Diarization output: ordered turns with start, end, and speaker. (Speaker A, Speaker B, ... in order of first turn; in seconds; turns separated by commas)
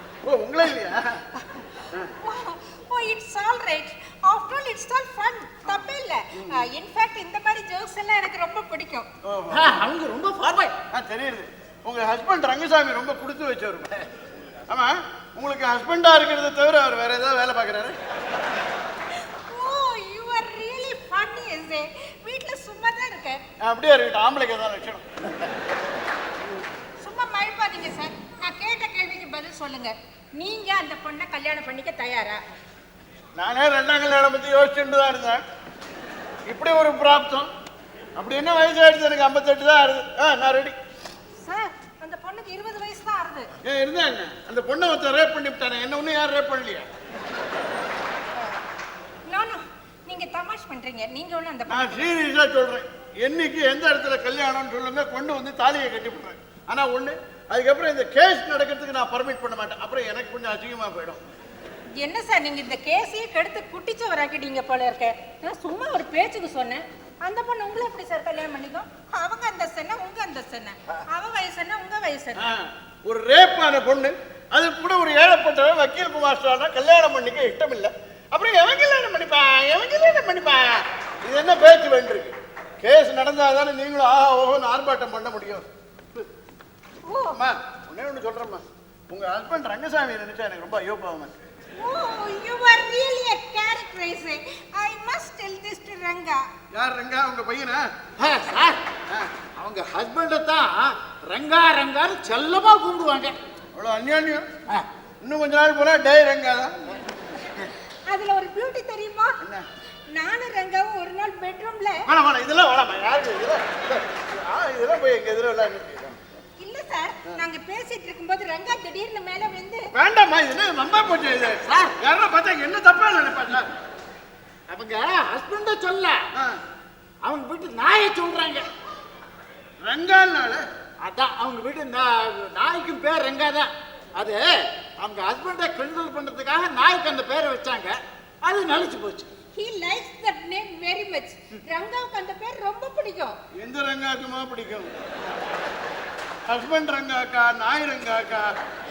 Speaker A: 0.2-1.2, Speaker B: 2.2-9.1, Speaker A: 9.2-9.8, Speaker C: 9.5-10.7, Speaker A: 10.9-13.9, Speaker A: 14.7-18.0, Speaker B: 19.2-23.4, Speaker A: 23.6-25.0, Speaker B: 27.0-32.4, Speaker A: 33.4-35.4, Speaker A: 36.5-37.5, Speaker A: 38.2-40.8, Speaker B: 41.4-43.5, Speaker A: 43.6-46.9, Speaker B: 49.3-52.1, Speaker A: 51.7-61.2, Speaker B: 62.0-72.5, Speaker A: 72.4-86.2, Speaker B: 87.1-87.4, Speaker A: 87.3-91.3, Speaker B: 91.8-96.4, Speaker A: 96.7-97.8, Speaker C: 98.2-98.8, Speaker C: 99.5-103.3, Speaker A: 103.7-104.5, Speaker A: 105.2-106.8, Speaker B: 108.1-109.4, Speaker B: 110.1-112.0, Speaker A: 112.1-116.2, Speaker B: 116.6-119.8, Speaker A: 120.0-123.7, Speaker C: 124.7-126.2, Speaker C: 127.2-128.7, Speaker A: 129.8-130.6, Speaker C: 131.0-139.3, Speaker B: 139.5-143.4, Speaker A: 143.6-144.9, Speaker A: 146.5-148.5